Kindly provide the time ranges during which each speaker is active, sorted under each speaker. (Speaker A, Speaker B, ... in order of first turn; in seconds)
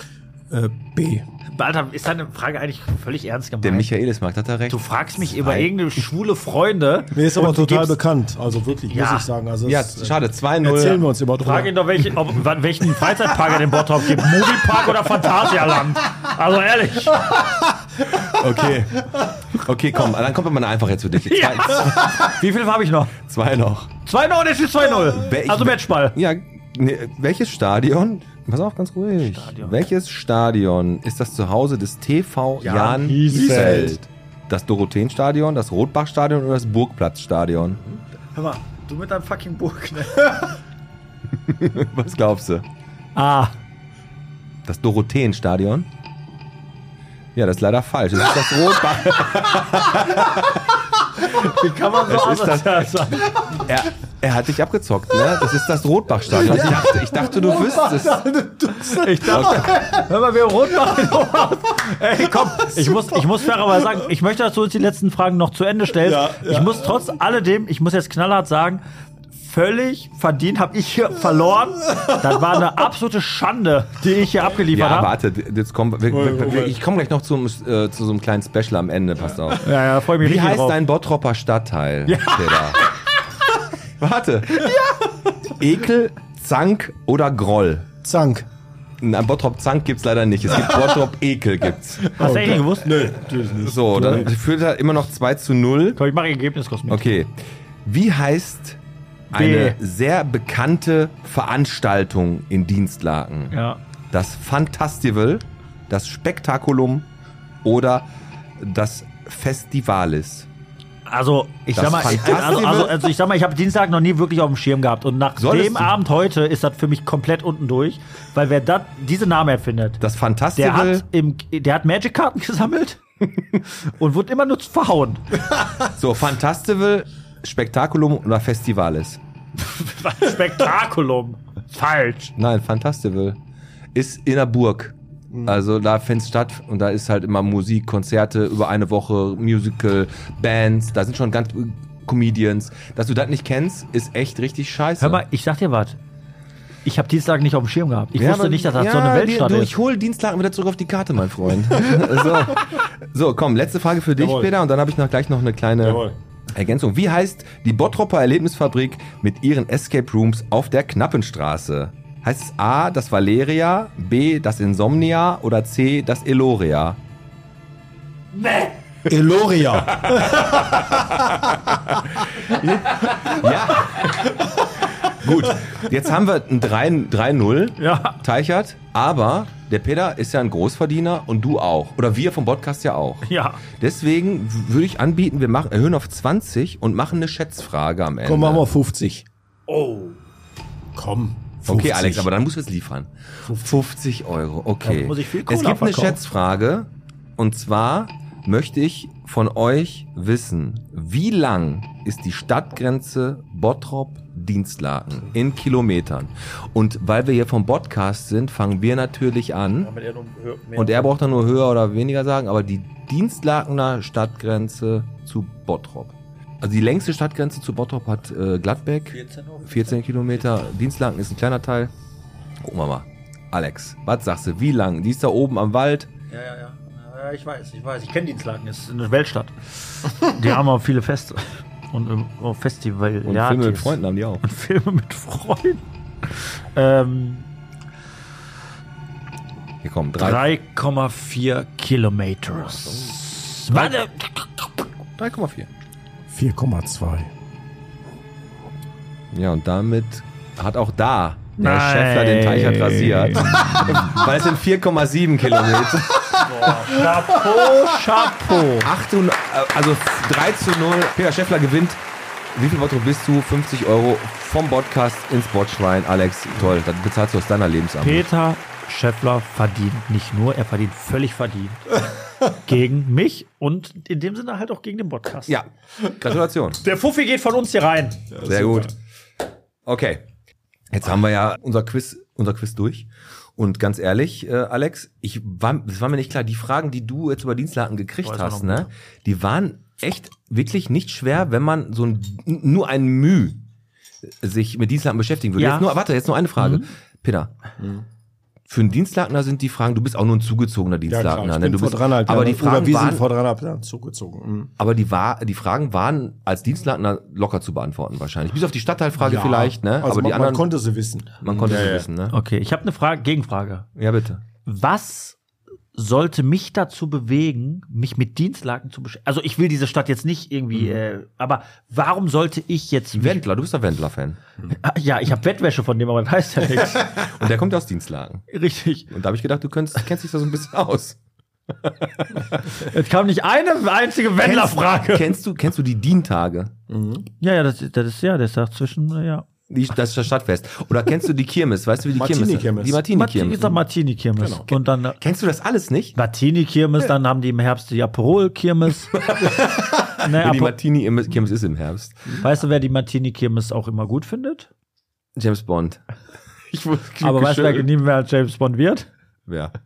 Speaker A: 0.5-1.2, 7.1-12.1, 17.3-18.4, 33.3-33.9, 56.3-60.0, 62.6-63.9, 66.0-67.1, 71.9-72.1, 76.1-76.8, 88.0-88.5, 92.0-94.3, 154.2-154.5, 155.8-156.2, 169.1-172.0, 188.2-189.2, 190.9-192.3, 193.4-193.8, 246.3-247.3, 256.9-257.6, 278.3-278.9, 301.1-304.7, 309.2-312.1, 336.9-337.2, 342.1-343.0, 344.4-344.7
Speaker B: 1.5-3.9, 4.7-8.0, 8.9-9.3, 11.4-17.3, 21.2-23.1, 24.0-26.2, 29.2-29.8, 32.6-33.9, 38.3-40.5, 43.1-43.6, 51.2-53.6, 58.9-68.8, 69.3-75.1, 79.5-80.8, 82.1-82.4, 92.2-93.2, 96.0-97.1, 99.3-99.8, 103.5-103.8, 111.1-120.0, 120.5-123.0, 123.7-125.4, 129.6-132.3, 145.0-146.0, 146.8-149.7, 168.3-168.7, 177.8-178.2, 183.2-183.6, 189.7-190.2, 194.8-196.2, 209.8-211.5, 219.1-220.6, 226.3-237.5, 240.2-244.7, 251.6-254.1, 256.4-258.9, 268.0-275.6, 276.8-278.3, 288.2-288.9, 295.6-295.9, 296.6-296.9, 312.3-313.9, 314.6-315.4, 315.9-323.4, 324.7-327.2, 328.5-329.1, 332.7-335.3, 337.4-339.4, 343.1-345.2, 346.1-349.1, 350.2-350.7, 352.4-354.7, 357.2-359.1
Speaker C: 3.6-5.7, 9.6-11.0, 18.1-22.2, 23.2-23.9, 25.1-37.8, 41.4-42.6, 44.6-45.9, 47.3-50.7, 52.0-52.9, 53.6-58.2, 59.3-59.7, 74.7-82.8, 84.0-84.7, 85.5-87.9, 89.0-92.2, 93.5-96.0, 96.9-98.8, 99.3-103.5, 104.1-107.1, 107.6-110.5, 111.7-113.1, 115.4-116.0, 120.0-121.0, 125.9-129.2, 132.4-133.4, 133.9-145.2, 148.1-167.0, 170.0-170.9, 172.4-174.3, 175.0-188.6, 191.6-209.9, 210.8-221.9, 222.6-226.1, 233.2-234.4, 239.8-240.4, 242.8-243.1, 245.2-245.7, 249.3-256.4, 258.7-262.0, 262.5-268.3, 275.5-276.8, 278.4-278.9, 279.8-280.2, 280.9-293.6, 294.4-297.5, 298.7-303.2, 304.8-310.6, 311.4-312.4, 313.9-314.4, 323.1-324.4, 326.9-328.4, 329.1-331.2, 331.7-332.6, 334.4-336.7, 339.7-343.8, 345.2-346.2, 349.1-352.4, 355.4-356.0, 356.7-357.9, 359.5-359.7